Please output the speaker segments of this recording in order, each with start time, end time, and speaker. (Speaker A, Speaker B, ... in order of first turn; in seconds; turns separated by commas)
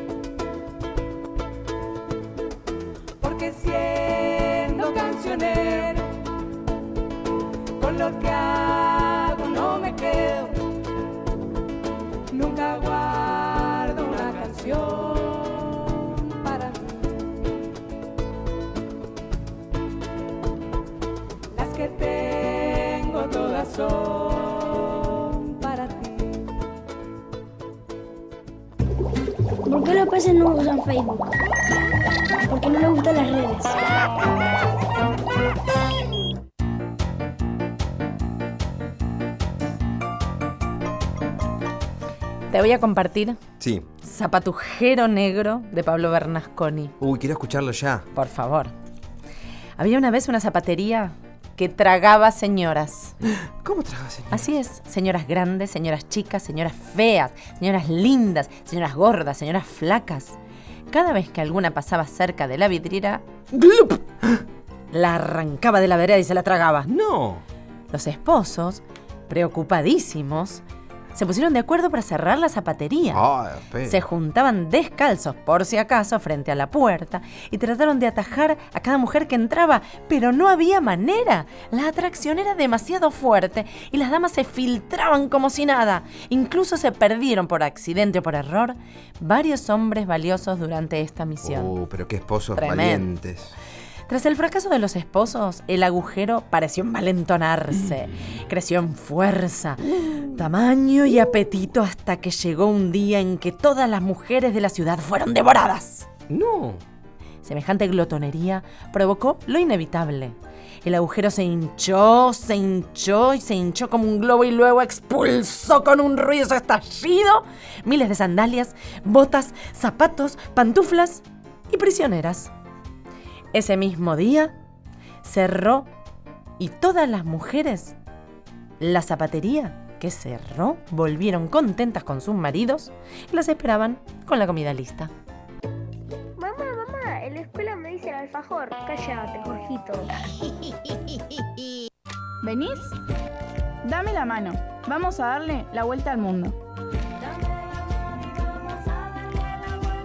Speaker A: 3.2-6.1, Speaker A: 7.8-10.6, Speaker A: 12.3-16.9, Speaker A: 21.5-26.4, Speaker B: 29.7-31.3, Speaker B: 32.5-33.8, Speaker C: 42.5-43.4, Speaker D: 43.6-43.9, Speaker C: 44.0-46.9, Speaker D: 47.0-48.0, Speaker C: 48.1-48.7, Speaker C: 49.8-53.2, Speaker D: 53.4-54.5, Speaker C: 54.3-60.4, Speaker C: 60.9-64.0, Speaker C: 64.9-66.9, Speaker D: 66.9-67.4, Speaker C: 67.9-70.6, Speaker C: 71.2-73.2, Speaker D: 73.1-74.0, Speaker C: 73.9-91.7, Speaker D: 91.4-93.5, Speaker C: 92.6-93.1, Speaker C: 94.1-106.1, Speaker D: 106.3-106.8, Speaker C: 107.4-122.5, Speaker C: 123.5-124.5, Speaker C: 125.2-125.9, Speaker C: 126.6-128.0, Speaker C: 128.8-135.1, Speaker B: 136.4-140.0, Speaker E: 142.4-142.9, Speaker E: 143.8-146.6